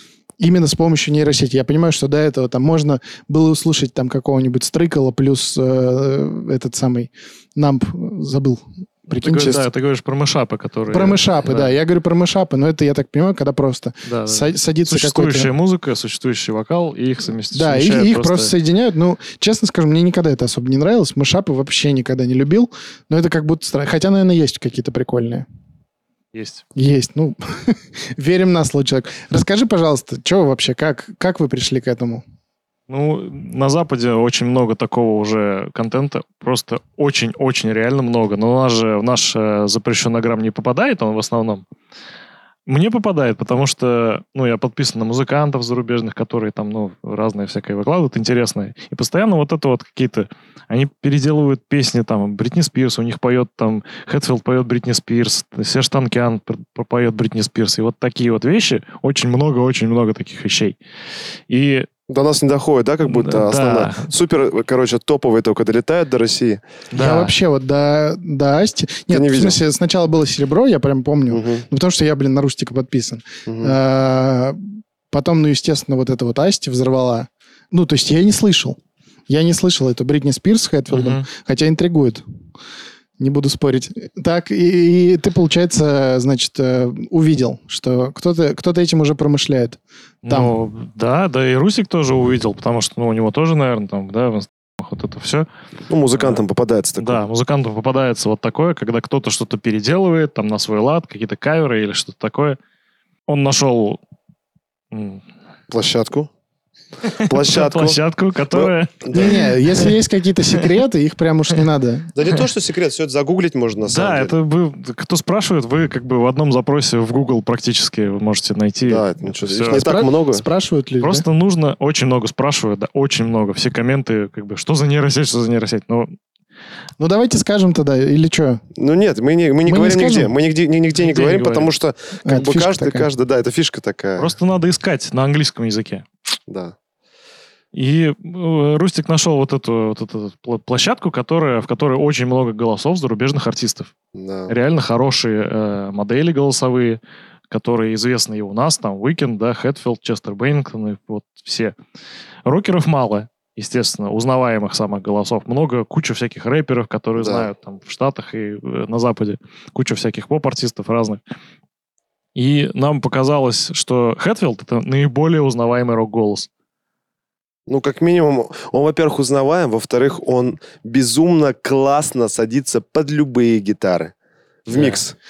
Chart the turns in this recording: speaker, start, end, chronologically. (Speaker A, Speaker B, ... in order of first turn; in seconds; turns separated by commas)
Speaker A: 0.4-9.7, Speaker B: 9.2-11.7, Speaker A: 10.9-15.5, Speaker B: 14.1-18.5, Speaker A: 17.5-25.5, Speaker B: 26.3-26.6, Speaker A: 26.8-32.2, Speaker B: 32.9-41.6, Speaker B: 42.7-60.8, Speaker B: 61.5-61.9, Speaker C: 62.1-66.6, Speaker B: 63.1-64.1, Speaker B: 66.9-67.3, Speaker A: 66.9-78.8, Speaker C: 69.1-69.6, Speaker C: 71.3-71.7, Speaker C: 73.5-73.8, Speaker A: 79.3-82.2, Speaker B: 80.9-81.2, Speaker A: 83.2-90.5, Speaker B: 90.2-95.5, Speaker C: 95.9-97.2, Speaker B: 96.2-96.4, Speaker B: 97.0-102.6, Speaker B: 103.3-104.0, Speaker B: 104.9-105.2, Speaker C: 105.7-106.3, Speaker B: 107.1-110.0, Speaker C: 107.2-108.0, Speaker C: 108.5-109.4, Speaker A: 109.1-112.1, Speaker C: 112.1-114.3, Speaker B: 113.8-119.8, Speaker C: 118.8-120.4, Speaker A: 119.7-121.3, Speaker B: 121.0-126.1, Speaker A: 127.0-128.6, Speaker C: 128.8-134.3, Speaker A: 129.7-130.3, Speaker B: 130.9-131.7, Speaker A: 132.2-133.1, Speaker B: 134.2-136.1, Speaker C: 136.5-136.8, Speaker B: 137.7-143.9, Speaker C: 144.1-144.5, Speaker B: 144.5-151.8, Speaker B: 152.4-161.2, Speaker C: 157.2-157.5, Speaker B: 162.4-166.5, Speaker C: 167.7-174.1, Speaker C: 174.7-175.2, Speaker B: 174.7-175.0